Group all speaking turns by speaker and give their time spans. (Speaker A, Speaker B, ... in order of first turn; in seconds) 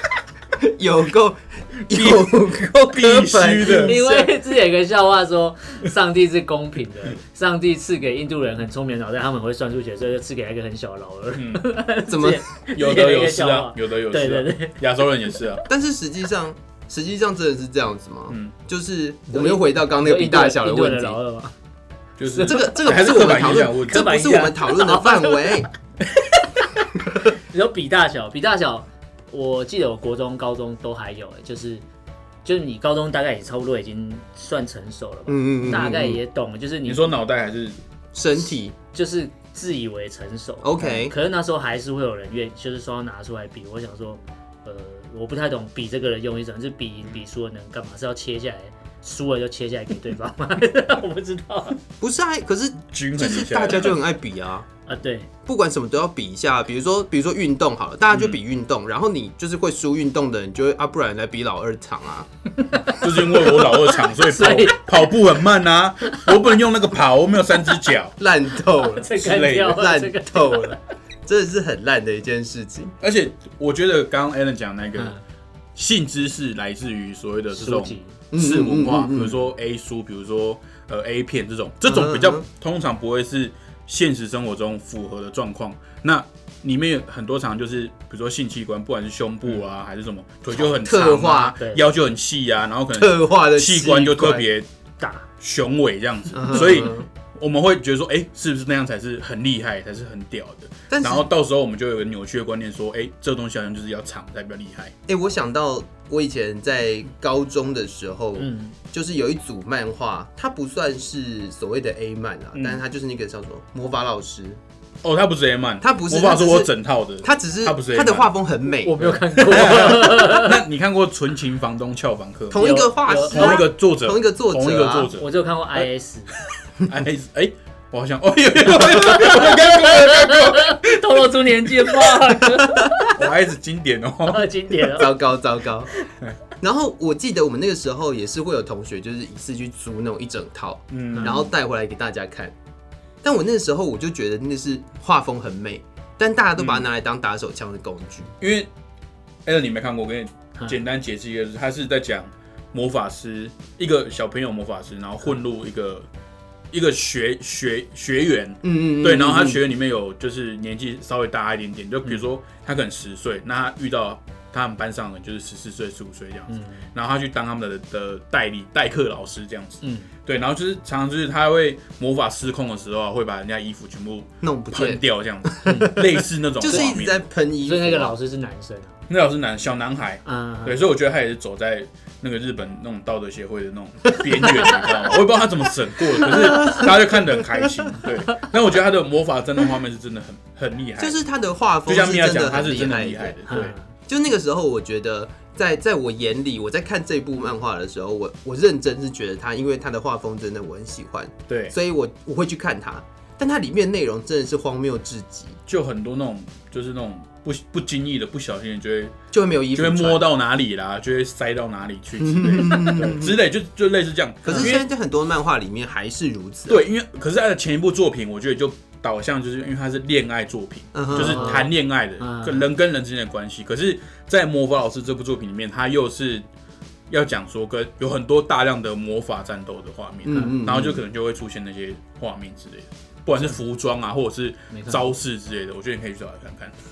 Speaker A: 0.6-4.3, 12.1-12.4, 15.7-21.2, 22.4-25.7, 35.3-36.2, 38.1-38.8, 40.6-41.1, 52.0-54.7, 55.5-62.3, 68.2-73.0, 78.3-79.4, 81.8-82.4, 90.5-91.6, 92.9-94.5, 96.3-97.1, 100.9-101.3, 105.1-114.6, 115.8-119.0, 122.5-125.1, 134.9-135.9, 136.6-142.5, 143.2-148.3, 158.6-159.6, 174.4-176.0, 176.6-178.2, 184.4-184.8, 186.2-186.9, 191.0-193.4, 194.1-205.6, 209.3-210.3, 212.2-213.4, 214.4-216.8, 220.9-221.7, 230.2-231.0
Speaker B: 1.9-4.0, 11.3-11.7, 12.7-15.7, 18.3-18.5, 22.2-24.2, 36.9-37.8, 52.9-54.0, 62.9-68.2, 69.2-69.8, 73.0-75.2, 75.8-94.7, 95.4-104.9, 112.5-112.8, 115.0-118.3, 119.0-122.7, 123.3-125.8, 126.8-131.2, 133.1-134.5, 140.9-141.5, 146.6-146.9, 148.4-148.7, 149.5-156.1, 156.7-177.3, 179.1-191.2, 191.9-193.8, 201.5-201.8, 205.7-209.2, 209.7-214.8, 216.7-226.4, 227.1-236.8
Speaker C: 3.7-14.8, 19.3-21.5, 22.3-25.6, 27.4-31.9, 32.5-37.2, 38.9-51.8, 54.9-55.3, 62.6-65.1, 68.8-70.8, 77.5-78.2, 95.0-95.3, 108.4-108.8, 118.8-120.6, 122.6-123.6, 125.2-126.3, 128.9-133.2, 134.3-135.1, 141.1-141.4, 166.5-166.9, 169.8-170.1, 175.6-176.0, 177.7-179.0, 180.3-180.8, 193.5-193.9, 221.1-222.7, 234.7-235.1